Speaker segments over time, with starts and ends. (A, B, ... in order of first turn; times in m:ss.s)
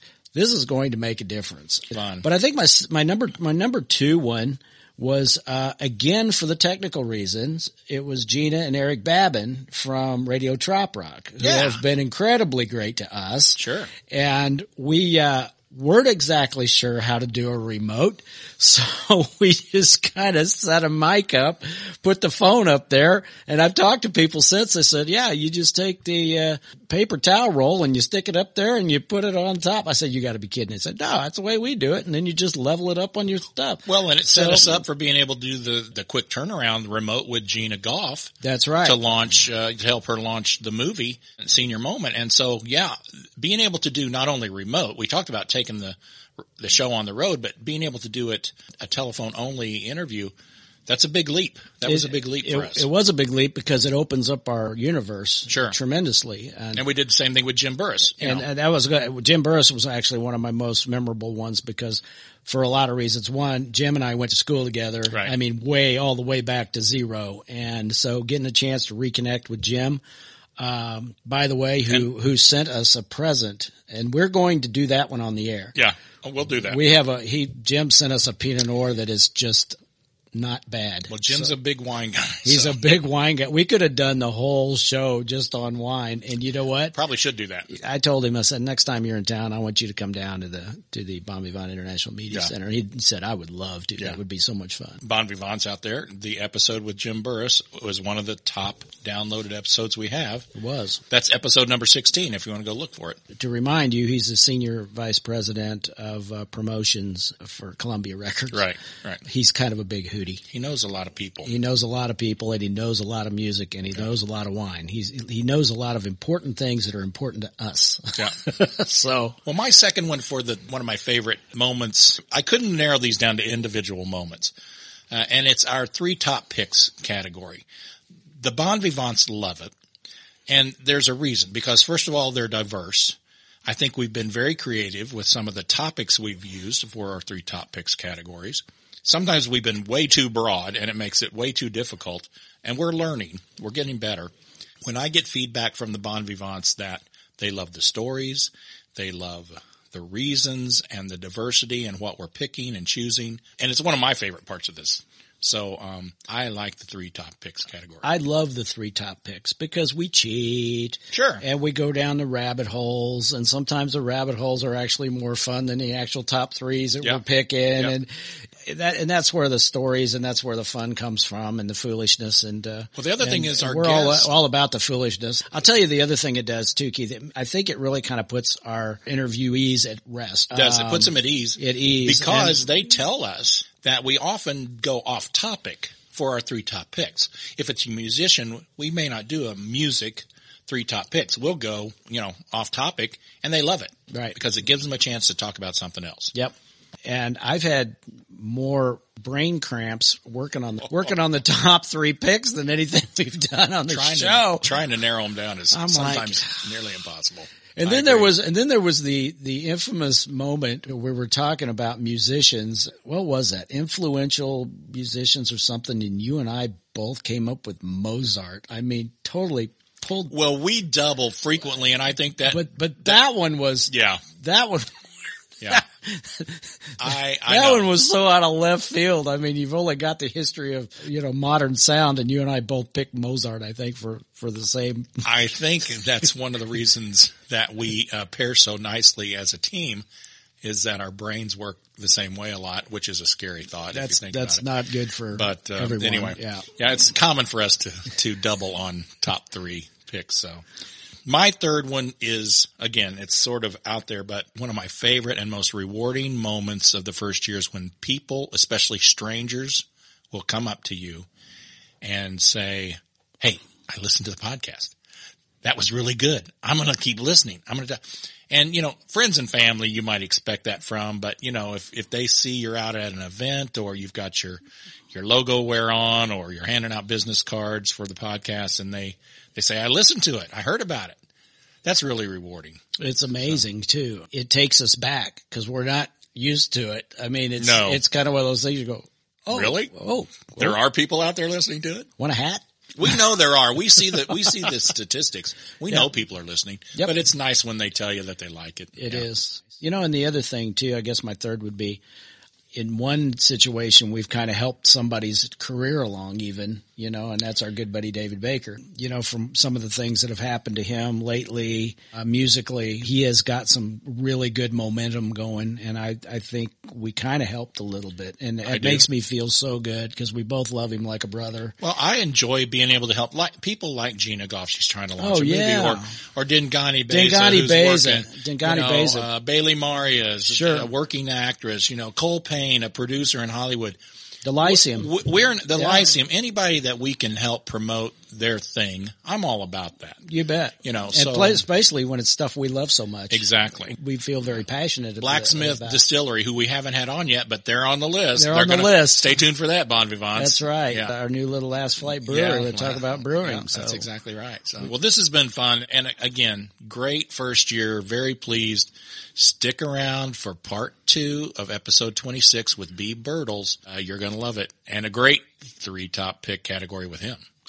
0:00.3-0:34.8 A
0:01.9-0:02.2 B
0:11.4-0:11.8 B
0:13.6-0:13.9 B
0:33.8-0:38.3 B
0:38.4-0:39.0 A
0:38.8-0:46.0 B
0:46.6-0:50.3 B
0:50.9-0:52.8 B
0:51.8-0:56.8 A
0:55.5-0:55.8 B
0:56.7-0:58.4 B
0:58.2-1:10.0 A
1:10.6-1:15.7 A
1:15.7-1:16.8 B
1:16.6-1:19.8 A
1:20.3-1:21.5 A
1:21.1-1:22.8 B
1:22.4-1:26.9 A
1:26.9-1:27.7 B
1:27.7-1:35.0 A
1:35.0-1:40.5 B
1:40.5-1:41.0 A
1:41.1-1:43.2 B
1:43.3-1:48.7 A
1:48.5-1:49.2 B
1:49.2-1:50.4 A
1:50.5-1:51.5 B
1:51.4-1:59.4 A
1:59.4-2:04.5 B
2:05.1-2:07.6 B
2:08.4-2:09.7 B
2:10.5-2:24.3 B
2:24.8-2:38.1 B
2:38.0-2:48.1 A
2:41.1-2:41.4 B
2:48.6-3:02.6 A
2:52.9-2:54.3 B
3:00.5-3:16.3 B
3:14.1-3:14.4 A
3:17.0-3:24.7 A
3:23.9-3:28.3 B
3:25.7-3:26.6 A
3:27.8-3:40.3 A
3:40.3-3:43.2 B
3:42.5-3:44.9 A
3:43.9-3:44.2 B
3:45.7-3:55.2 A
3:47.0-3:47.9 B
3:55.2-4:00.0 B
4:00.6-4:04.6 B
4:03.9-4:06.6 A
4:05.3-4:10.6 B
4:11.2-4:21.3 B
4:22.0-4:24.9 B
4:25.6-4:34.6 B
4:35.1-4:41.2 B
4:41.8-4:42.8 B
4:43.0-4:50.8 A
4:47.6-4:48.0 B
4:49.5-4:49.9 B
4:50.6-4:52.1 B
4:52.2-4:53.1 A
4:53.0-4:59.3 B
4:59.0-5:02.0 A
5:02.7-5:21.7 A
5:18.6-5:19.0 B
5:21.8-5:34.0 B
5:25.2-5:26.0 A
5:27.1-5:29.3 A
5:30.5-5:30.9 A
5:34.4-5:35.1 A
5:34.6-5:40.2 B
5:35.7-5:36.0 A
5:40.3-5:46.0 A
5:40.8-5:41.6 B
5:43.3-5:44.0 B
5:45.2-5:51.1 B
5:48.3-5:49.4 A
5:50.4-5:54.0 A
5:52.2-6:07.4 B